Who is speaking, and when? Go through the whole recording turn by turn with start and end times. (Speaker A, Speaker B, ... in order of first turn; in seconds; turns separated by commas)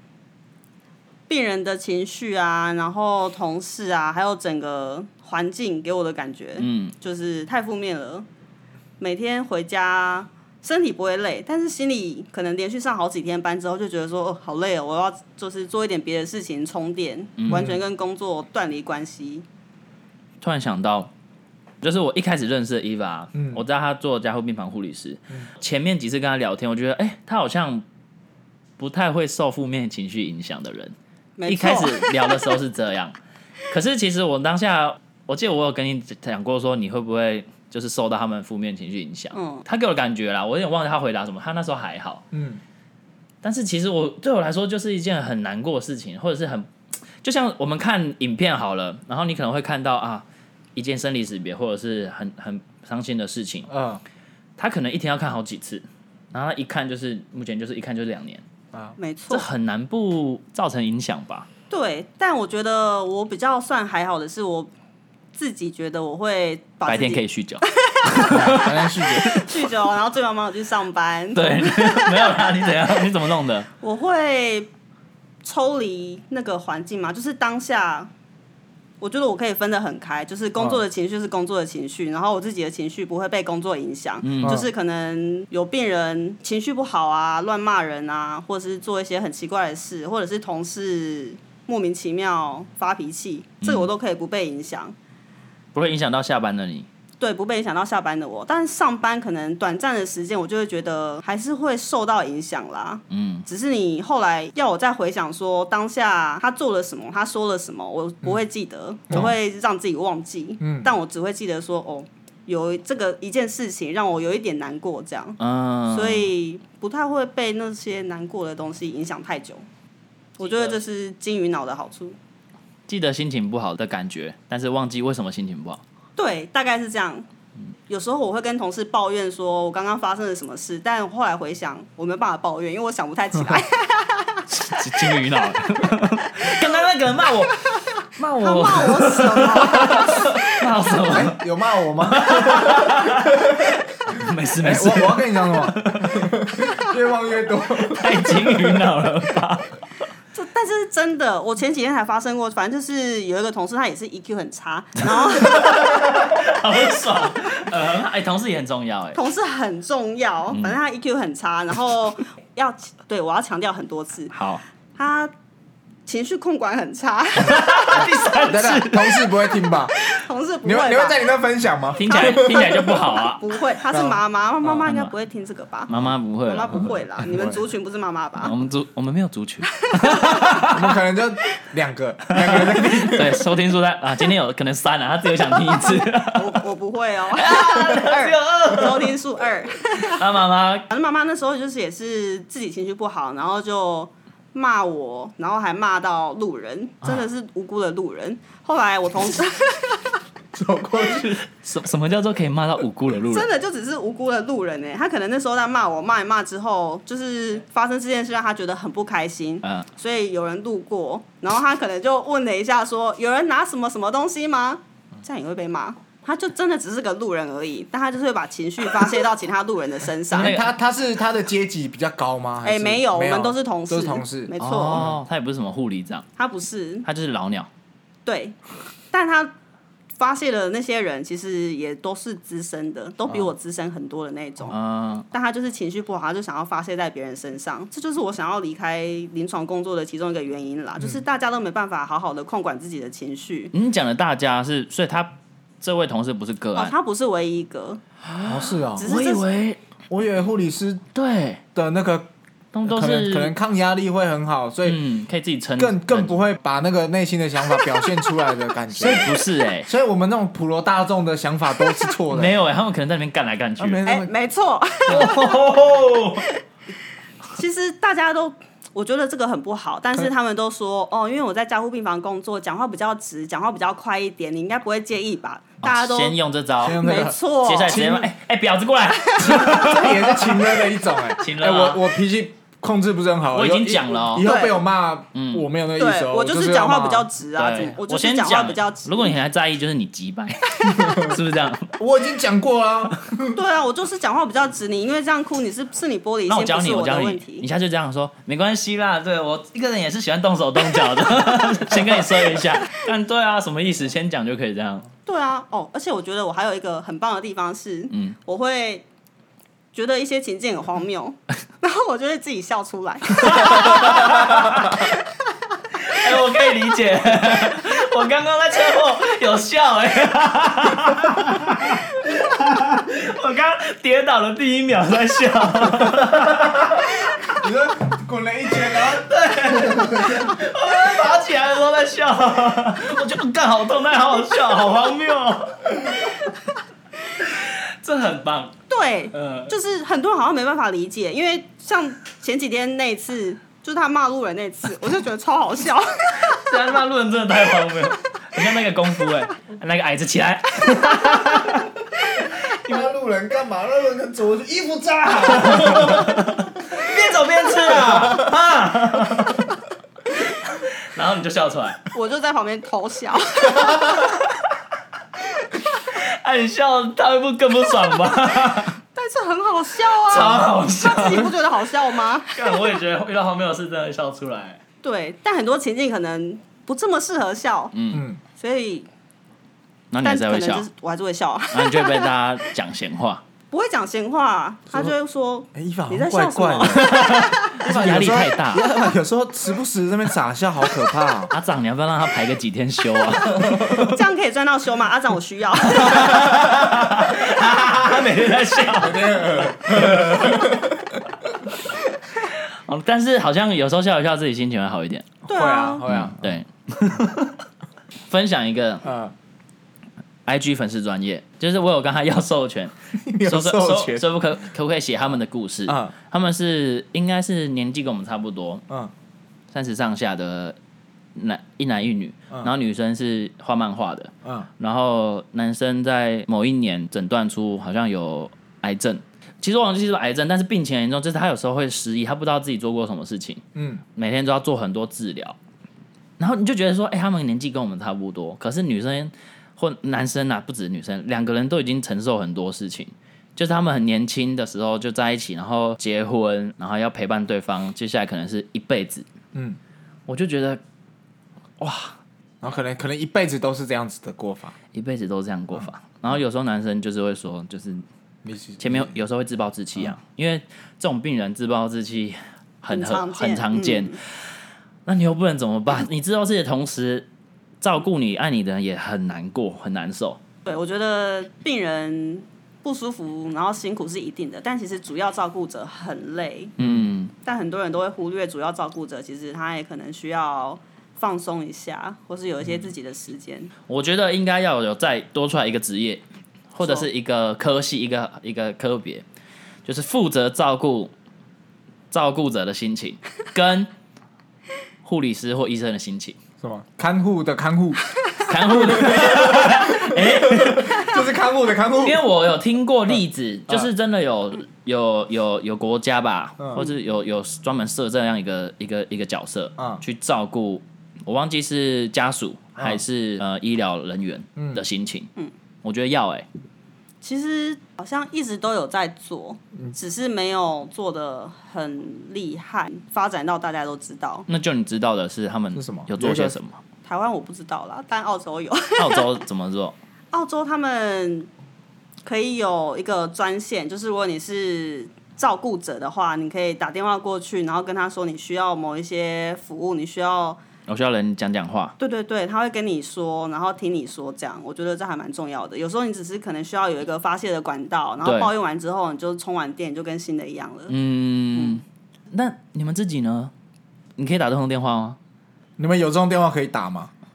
Speaker A: 1.3-8.3, Speaker B: 6.6-7.0, Speaker A: 9.0-19.4, Speaker B: 17.4-17.7, Speaker C: 17.5-17.8, Speaker B: 20.4-21.1, Speaker B: 21.8-27.9, Speaker C: 23.4-23.6, Speaker B: 28.8-30.9, Speaker A: 31.4-32.1, Speaker B: 31.5-33.2, Speaker B: 33.7-42.2, Speaker A: 39.3-39.6, Speaker C: 42.3-42.6, Speaker B: 43.4-46.7, Speaker B: 47.2-53.7, Speaker C: 53.7-54.0, Speaker B: 54.6-58.4, Speaker A: 59.0-59.5, Speaker B: 59.3-61.5, Speaker A: 61.7-64.7, Speaker A: 65.3-72.5, Speaker B: 66.9-69.3, Speaker C: 68.3-69.5, Speaker B: 71.3-73.7, Speaker A: 73.8-74.7, Speaker A: 75.4-78.1, Speaker A: 79.0-95.0, Speaker B: 84.2-84.6, Speaker B: 95.7-96.9, Speaker A: 97.2-119.6, Speaker B: 103.1-103.5, Speaker C: 110.6-110.9, Speaker B: 115.4-116.3, Speaker A: 120.4-122.2, Speaker B: 120.5-120.8, Speaker B: 122.9-125.8, Speaker A: 126.2-127.3, Speaker A: 127.9-136.8, Speaker B: 134.5-141.4, Speaker A: 138.4-140.6, Speaker C: 141.1-148.8, Speaker B: 142.0-146.3, Speaker B: 147.8-149.8, Speaker A: 150.3-156.2, Speaker B: 155.0-159.2, Speaker A: 159.1-164.3, Speaker B: 164.3-164.6, Speaker A: 165.0-165.3, Speaker A: 166.1-168.1, Speaker B: 167.4-169.3, Speaker C: 167.5-169.9, Speaker A: 169.9-171.2, Speaker C: 170.6-172.7, Speaker B: 172.0-173.4, Speaker A: 172.0-175.9, Speaker C: 173.9-174.2, Speaker B: 174.8-175.1, Speaker B: 175.9-177.6, Speaker A: 176.4-178.5, Speaker B: 178.4-181.0, Speaker A: 179.8-180.7, Speaker C: 180.7-183.5, Speaker B: 182.3-186.6, Speaker A: 186.3-190.2, Speaker B: 187.3-189.2, Speaker B: 189.9-190.9, Speaker A: 190.9-200.2, Speaker C: 200.5-201.4, Speaker B: 201.4-203.5, Speaker A: 203.3-220.6, Speaker B: 220.3-220.7, Speaker C: 220.3-225.2, Speaker A: 222.6-225.1, Speaker B: 224.6-226.3, Speaker A: 226.4-227.1, Speaker B: 227.1-227.7, Speaker A: 228.2-228.6, Speaker A: 229.1-229.5, Speaker A: 230.2-234.8, Speaker B: 234.7-235.3, Speaker A: 235.3-243.7, Speaker B: 243.7-246.9, Speaker A: 246.8-248.0, Speaker B: 248.2-249.8, Speaker C: 248.4-249.1, Speaker A: 248.9-249.4, Speaker C: 250.1-251.1, Speaker B: 251.1-251.6, Speaker C: 251.8-252.3, Speaker B: 252.7-253.5, Speaker C: 252.8-255.0, Speaker B: 254.9-256.4, Speaker C: 255.8-259.3, Speaker B: 258.9-259.9, Speaker C: 259.9-262.6, Speaker B: 262.3-264.0, Speaker C: 263.8-264.3, Speaker A: 264.1-265.8, Speaker B: 265.1-266.5, Speaker A: 267.5-276.4, Speaker B: 275.8-277.1, Speaker C: 276.8-278.3, Speaker A: 277.0-278.1, Speaker B: 277.6-282.0, Speaker C: 279.4-287.3, Speaker B: 283.5-284.5, Speaker A: 284.4-284.8, Speaker B: 285.4-285.6, Speaker A: 286.0-289.4, Speaker B: 287.6-292.0, Speaker C: 290.9-291.4, Speaker C: 292.0-293.6, Speaker A: 293.5-297.7, Speaker B: 296.5-305.1, Speaker A: 305.3-309.1, Speaker B: 308.1-308.4, Speaker A: 309.9-315.1, Speaker B: 313.4-315.1, Speaker B: 316.0-327.3, Speaker C: 327.3-330.6, Speaker B: 328.9-336.5, Speaker B: 337.4-338.8, Speaker A: 338.9-346.7, Speaker B: 339.3-339.7, Speaker B: 346.4-351.9, Speaker B: 352.7-353.0, Speaker C: 352.7-357.0, Speaker B: 355.5-359.7, Speaker C: 357.7-358.5, Speaker B: 360.5-362.0, Speaker A: 362.1-364.3, Speaker B: 364.3-364.6, Speaker B: 366.1-369.0, Speaker A: 369.1-372.8, Speaker B: 370.1-371.6, Speaker B: 372.3-374.8, Speaker A: 375.0-377.9, Speaker B: 377.9-378.2, Speaker C: 378.1-378.4, Speaker A: 378.6-379.1, Speaker B: 380.1-380.9, Speaker A: 380.2-382.3, Speaker B: 381.7-383.4, Speaker A: 383.7-387.8, Speaker C: 385.7-391.5, Speaker B: 386.9-388.9, Speaker B: 391.5-394.2, Speaker C: 393.5-393.9, Speaker A: 393.9-396.6, Speaker B: 395.9-400.7, Speaker C: 399.0-401.2, Speaker B: 402.4-405.3, Speaker C: 405.4-406.4, Speaker A: 405.5-406.1, Speaker B: 406.1-407.6, Speaker B: 408.3-409.1, Speaker C: 409.0-409.3, Speaker B: 410.4-418.8, Speaker C: 413.2-414.2, Speaker C: 415.9-416.1, Speaker B: 419.7-420.8, Speaker B: 421.4-433.6, Speaker C: 424.4-424.7, Speaker C: 433.8-434.0, Speaker B: 434.2-435.6, Speaker B: 436.4-449.3, Speaker B: 450.3-450.8, Speaker B: 451.8-452.1, Speaker C: 452.6-454.8, Speaker B: 454.9-458.1, Speaker C: 458.4-459.1, Speaker B: 458.8-464.3, Speaker A: 462.9-464.2, Speaker B: 465.1-467.3, Speaker B: 467.8-470.4, Speaker A: 470.7-476.8, Speaker B: 476.8-477.3, Speaker C: 476.8-477.1, Speaker A: 477.4-483.7, Speaker B: 483.9-489.2, Speaker B: 489.9-491.1, Speaker B: 492.1-493.9, Speaker B: 495.0-496.4, Speaker C: 496.6-498.0, Speaker B: 498.5-501.3, Speaker C: 498.7-502.2, Speaker B: 502.0-515.3, Speaker C: 506.6-506.9, Speaker C: 514.6-514.8, Speaker B: 515.8-516.5, Speaker A: 517.2-524.5, Speaker B: 524.5-526.8, Speaker C: 525.7-526.6, Speaker A: 527.1-529.3, Speaker B: 529.0-530.0, Speaker A: 530.3-531.5, Speaker A: 532.2-540.6, Speaker B: 540.9-542.0, Speaker A: 542.0-550.9, Speaker B: 548.2-548.5, Speaker B: 550.9-553.5, Speaker A: 551.5-551.8, Speaker B: 554.2-555.2, Speaker C: 555.8-557.1